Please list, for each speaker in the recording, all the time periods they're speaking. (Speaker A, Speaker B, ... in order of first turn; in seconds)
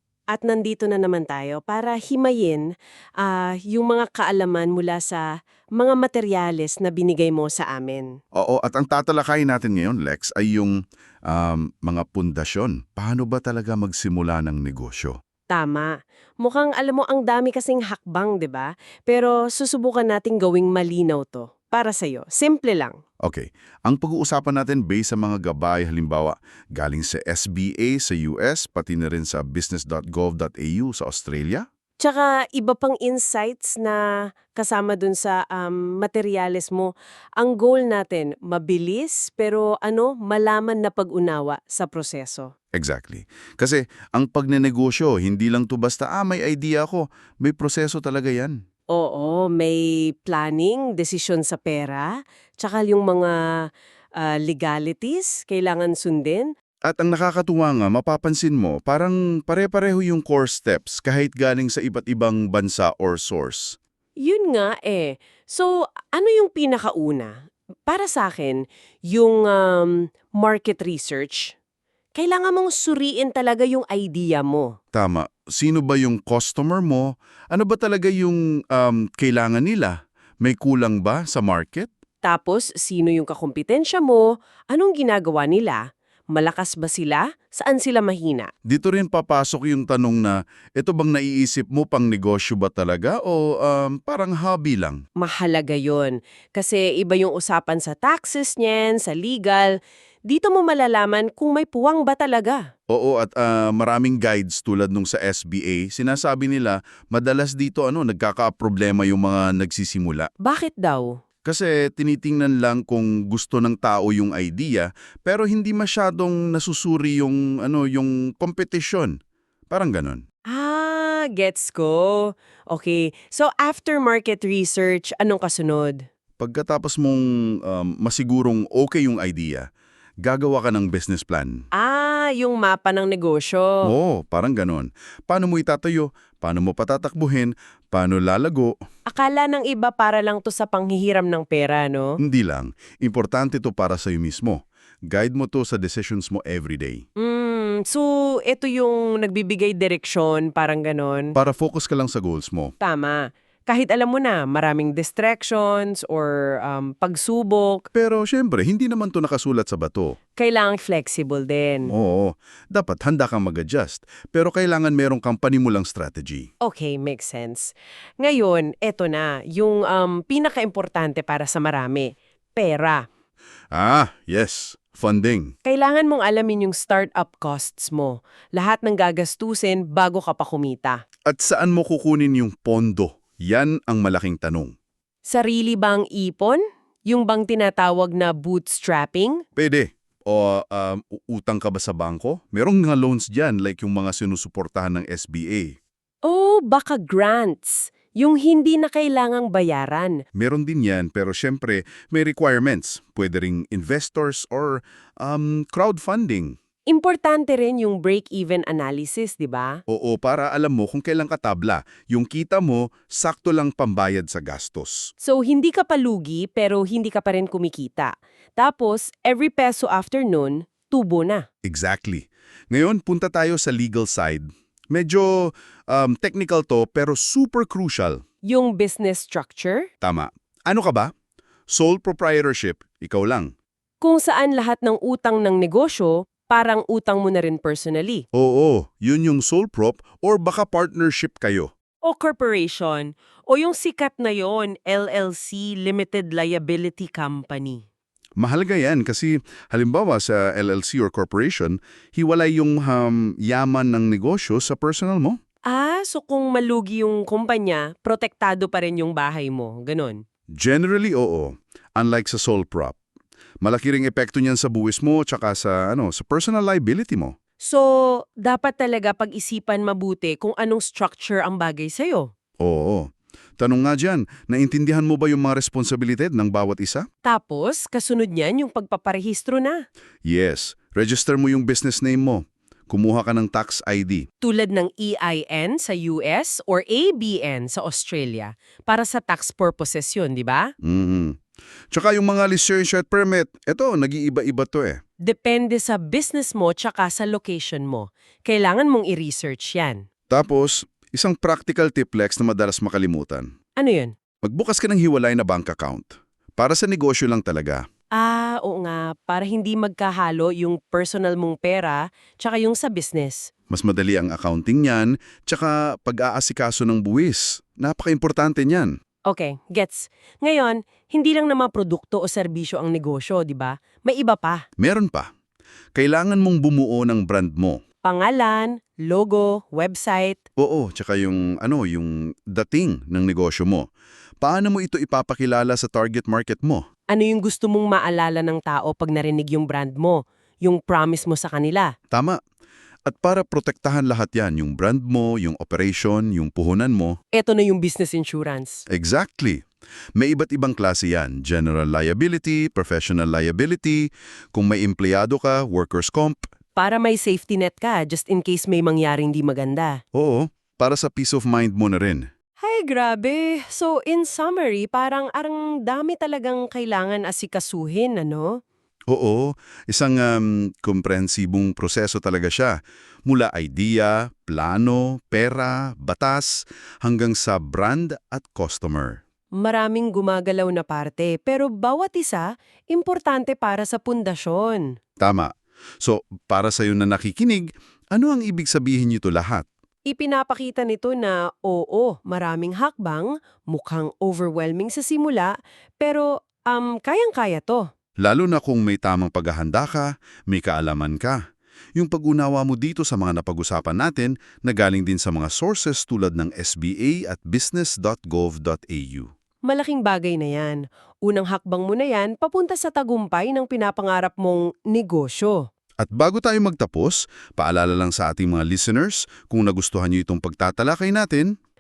Speaker A: 0.3-5.2, 5.8-8.1, 15.5-23.0, 32.0-42.5, 48.9-52.1, 52.6-53.4, 54.2-56.5, 64.2-67.3, 67.9-71.5, 72.2-74.7, 82.2-85.8, 86.3-88.5, 95.2-99.7, 100.3-102.6, 110.4-111.2, 120.5-126.0, 131.8-133.9, 139.1-142.1, 147.2-151.3, 152.8-157.8, 160.4-161.9, 166.6-173.0, 175.6-181.0, 185.2-189.4, 196.2-200.2, 206.9-209.8, 215.2-221.4, 228.4-229.9, 234.0-238.2, 242.0-247.8, 255.7-260.2, 267.6-272.3, 277.2-279.8, 284.4-290.7, 295.2-300.0, 303.8-304.1, 308.2-313.5, 319.3-324.6, 328.0-330.4, 337.1-341.9, 347.3-348.8, 356.8-360.0, 362.6-368.6, 379.6-384.9, 390.1-397.9, 409.7-415.6
Speaker B: 8.3-10.7, 11.3-15.2, 23.2-31.6, 42.7-48.6, 56.9-63.8, 74.9-81.9, 88.7-95.0, 102.9-110.3, 111.4-119.1, 119.7-120.2, 126.4-129.6, 130.2-131.6, 133.8-138.7, 142.2-147.0, 151.3-152.7, 157.9-160.2, 161.9-166.5, 173.7-175.5, 181.3-184.7, 189.6-195.7, 200.3-206.5, 209.9-215.1, 221.6-228.2, 230.0-231.1, 231.7-233.5, 238.3-241.7, 248.4-255.4, 260.6-262.9, 263.6-267.3, 272.6-277.0, 280.2-284.2, 290.8-291.3, 291.9-295.0, 300.3-303.5, 304.4-307.8, 313.7-318.9, 324.8-325.3, 325.9-327.8, 330.6-333.9, 334.4-336.8, 342.1-342.4, 343.1-347.2, 348.9-349.6, 350.2-356.5, 360.1-362.2, 369.1-372.8, 373.3-379.2, 385.2-389.6, 398.2-401.4, 402.0-409.3, 416.0-421.5